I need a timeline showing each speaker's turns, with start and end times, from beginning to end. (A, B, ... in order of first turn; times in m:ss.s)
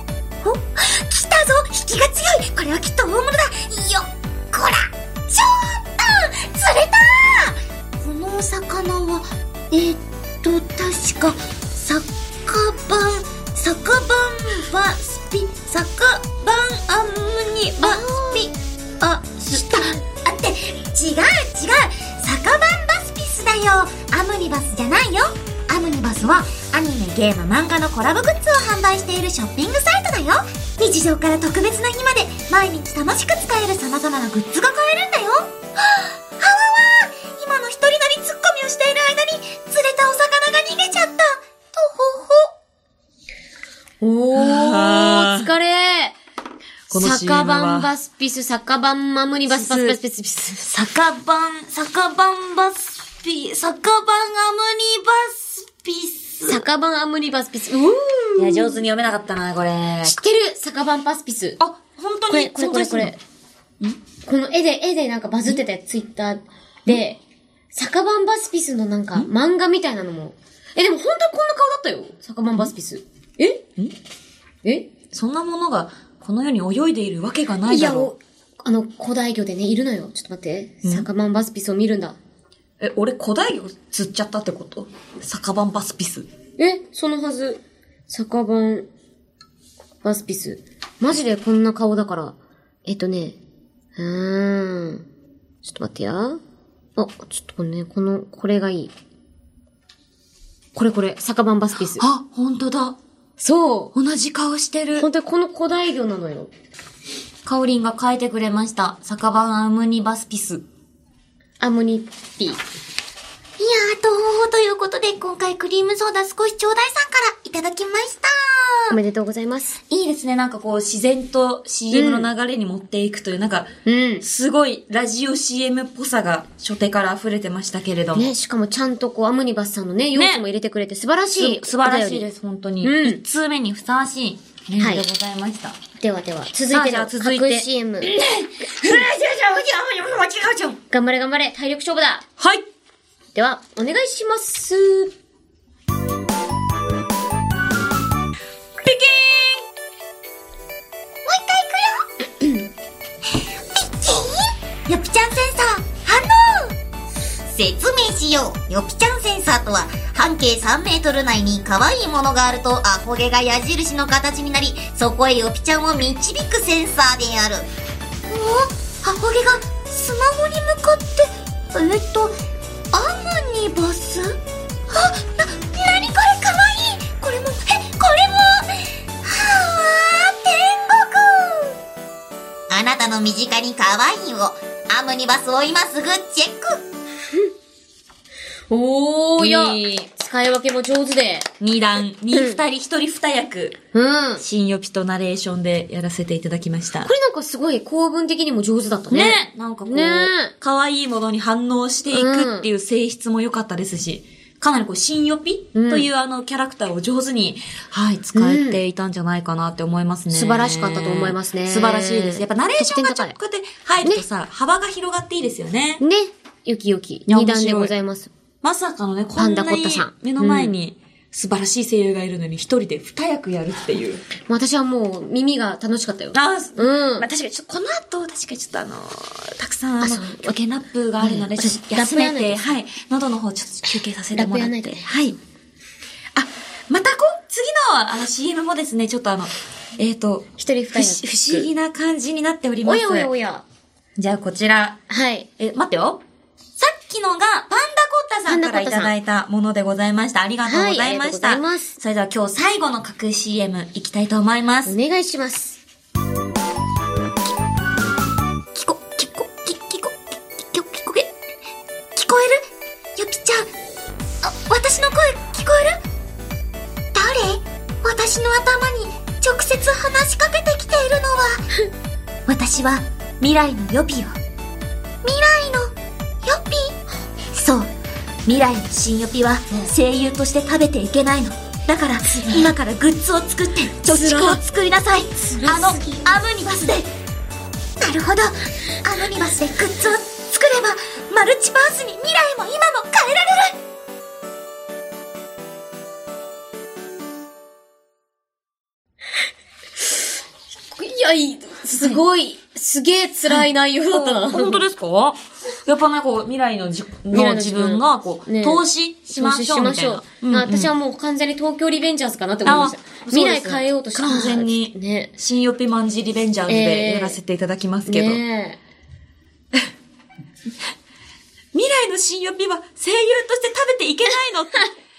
0:00.4-0:16.4 A
0:16.3-0:18.4 B
0:17.8-0:42.5 A
0:44.0-0:46.2 C
0:44.3-0:45.5 B
0:46.9-0:47.9 B
0:46.9-0:50.6 C
0:49.5-0:50.0 B
0:50.6-0:56.6 B
0:56.5-0:58.8 C
0:58.4-1:00.2 B
1:00.0-1:01.6 C
1:01.6-1:03.2 B
1:02.3-1:03.2 C
1:04.2-1:07.2 C
1:07.7-1:13.6 C
1:14.6-1:14.9 C
1:15.1-1:18.1 B
1:17.6-1:22.2 C
1:22.8-1:26.3 B
1:26.6-1:28.9 C
1:30.0-1:33.4 C
1:34.0-1:35.0 C
1:35.6-1:36.4 C
1:37.0-1:38.9 C
1:40.7-1:42.0 C
1:42.0-1:43.0 B
1:43.4-1:43.9 C
1:43.9-1:45.1 B
1:45.0-1:46.5 C
1:47.4-1:50.6 B
1:51.6-1:52.6 C
1:53.6-1:59.0 A
1:58.9-1:59.8 C
1:59.9-2:03.7 B
2:01.9-2:02.3 C
2:03.8-2:04.2 C
2:04.2-2:08.3 B
2:08.1-2:12.2 C
2:10.1-2:10.4 B
2:11.3-2:15.8 B
2:12.8-2:13.2 C
2:14.8-2:15.0 C
2:16.0-2:18.1 C
2:16.7-2:20.8 B
2:20.9-2:22.2 C
2:22.4-2:22.6 B
2:23.3-2:25.1 C
2:28.8-2:29.6 B
2:31.2-2:32.0 A
2:33.7-2:36.7 A
2:37.5-2:47.7 A
2:48.3-2:52.4 A
2:52.9-2:54.4 A
2:54.9-2:58.7 A
2:59.2-3:01.7 A
3:02.7-3:06.8 A
3:08.7-3:11.5 C
3:09.4-3:10.0 B
3:11.6-3:13.8 B
3:12.3-3:12.6 C
3:13.9-3:14.4 C
3:14.4-3:17.1 B
3:17.0-3:20.5 C
3:19.1-3:36.0 B
3:22.1-3:22.7 C
3:25.7-3:26.1 C
3:28.3-3:28.8 C
3:30.3-3:33.4 C
3:36.0-3:38.3 C
3:37.3-3:37.9 B
3:38.6-3:44.2 B
3:39.4-3:40.7 C
3:44.5-3:47.3 C
3:46.3-3:55.4 B
3:50.0-3:50.6 C
3:51.2-3:52.6 C
3:54.3-3:55.1 C
3:56.3-4:03.3 B
4:00.6-4:01.7 C
4:02.8-4:03.6 C
4:04.2-4:05.0 B
4:05.1-4:05.5 C
4:05.6-4:06.2 B
4:06.8-4:14.9 B
4:08.4-4:09.1 C
4:10.6-4:12.0 C
4:14.8-4:15.8 C
4:18.7-4:21.2 B
4:22.2-4:22.6 B
4:23.2-4:23.6 A
4:24.4-4:26.0 A
4:27.1-4:31.6 A
4:32.5-4:34.3 A
4:33.4-4:34.3 B
4:35.2-4:35.9 A
4:36.4-4:37.0 A
4:37.5-4:37.9 A
4:38.4-4:47.0 B
4:44.1-4:44.6 C
4:45.5-4:46.1 C
4:45.8-4:47.0 A
4:48.0-4:53.7 A
5:00.9-5:04.8 C
5:01.9-5:02.2 B
5:03.5-5:10.9 B
5:07.3-5:15.3 C
5:12.6-5:18.4 B
5:16.7-5:17.4 C
5:18.0-5:18.8 C
5:21.7-5:24.9 B